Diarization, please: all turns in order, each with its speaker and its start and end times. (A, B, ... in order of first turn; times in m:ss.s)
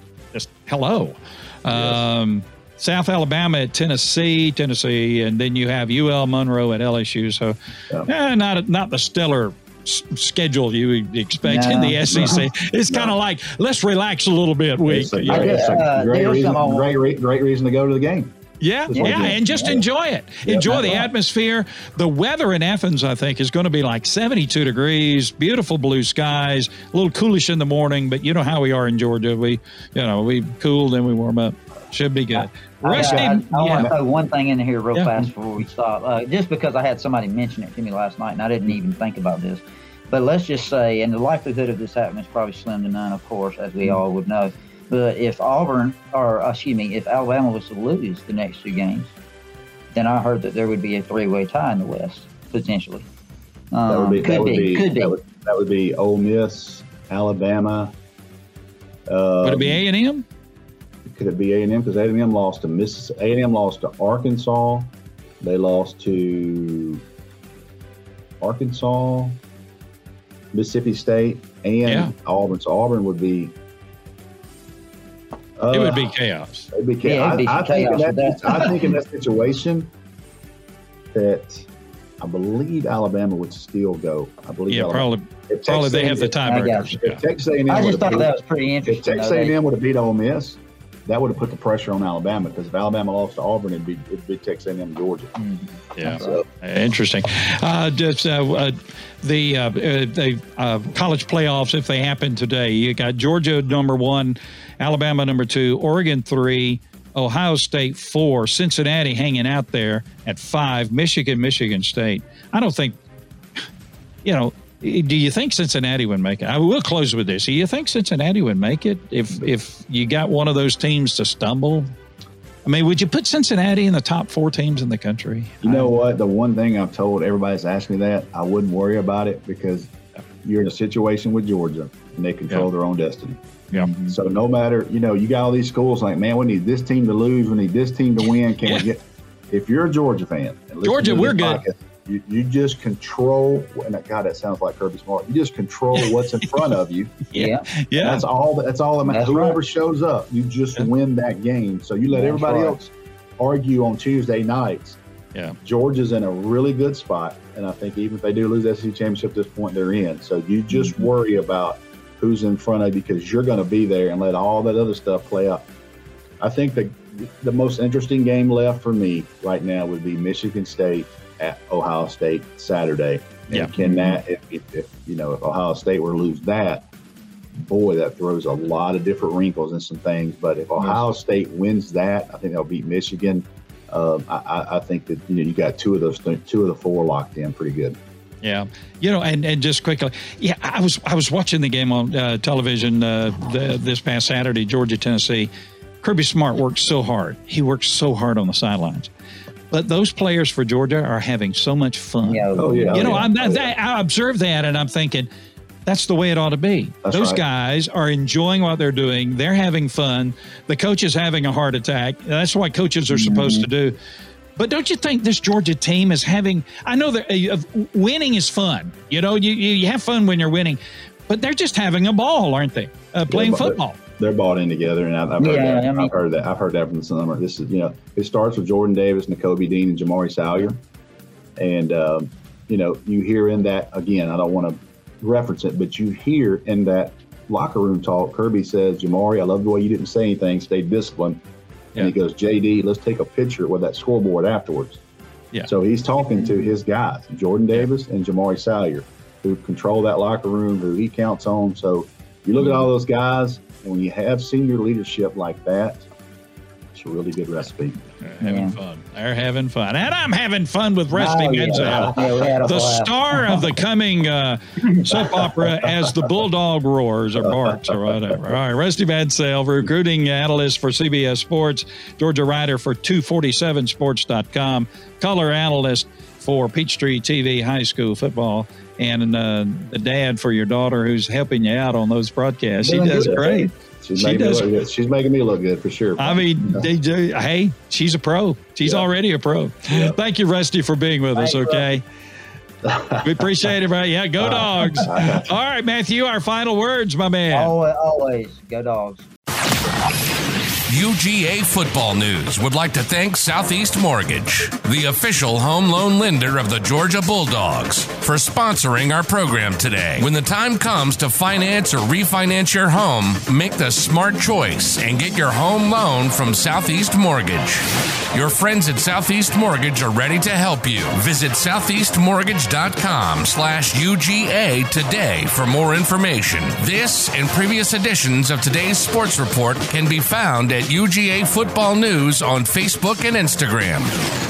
0:00.3-0:15.6 A
0:01.7-0:02.0 B
0:11.4-0:12.4 C
0:12.1-0:13.2 B
0:14.9-0:18.4 B
0:15.3-0:16.9 C
0:18.6-0:33.9 A
0:18.9-0:19.8 B
0:18.9-0:19.8 C
0:20.4-0:21.1 B
0:32.4-0:34.0 B
0:32.8-0:49.1 C
0:35.0-0:35.3 A
0:49.9-0:53.1 C
0:53.7-0:55.2 C
0:53.9-0:57.9 B
0:59.1-0:59.8 B
0:59.4-1:00.3 A
1:01.1-1:07.0 B
1:08.4-1:09.4 B
1:10.5-1:13.5 B
1:11.8-1:12.1 A
1:15.6-1:16.1 B
1:15.7-1:16.7 A
1:16.7-1:19.9 B
1:17.0-1:19.0 C
1:21.1-1:21.7 B
1:22.2-1:35.4 B
1:24.7-1:27.2 A
1:26.4-1:27.0 C
1:27.7-1:29.6 C
1:35.4-1:36.4 C
1:36.0-1:53.0 A
1:36.0-1:36.4 B
1:54.2-2:01.9 A
2:02.6-2:05.9 A
2:05.6-2:09.9 B
2:10.4-2:13.4 B
2:13.7-2:14.1 A
2:14.0-2:27.2 B
2:18.6-2:18.9 A
2:20.8-2:21.6 A
2:27.3-2:28.2 A
2:27.4-2:27.7 C
2:27.9-2:35.0 B
2:29.0-2:29.6 C
2:32.1-2:32.8 C
2:35.6-2:45.7 B
2:40.7-2:41.0 C
2:46.4-2:56.9 B
2:53.8-2:54.2 C
2:57.5-3:08.0 B
3:08.4-3:15.5 A
3:16.0-3:19.1 A
3:19.7-3:25.3 A
3:22.2-3:23.3 C
3:22.6-3:23.7 B
3:25.9-3:34.0 A
3:27.0-3:27.4 B
3:33.1-3:33.7 C
3:34.6-3:44.0 A
3:43.3-3:50.8 B
3:45.4-3:46.1 C
3:51.6-4:01.4 B
4:02.0-4:05.0 B
4:05.6-4:16.1 B
4:16.9-4:18.0 B
4:18.2-4:44.7 A
4:18.4-4:18.8 C
4:21.1-4:23.6 C
4:21.7-4:22.3 B
4:25.6-4:26.3 B
4:27.4-4:28.4 B
4:42.8-4:46.9 B
4:46.2-4:52.0 A
4:49.9-4:50.2 B
4:51.4-4:51.9 C
4:52.8-4:53.7 B
4:53.2-4:57.7 A
4:54.4-4:55.6 B
4:57.5-4:59.3 C
5:00.9-5:34.1 D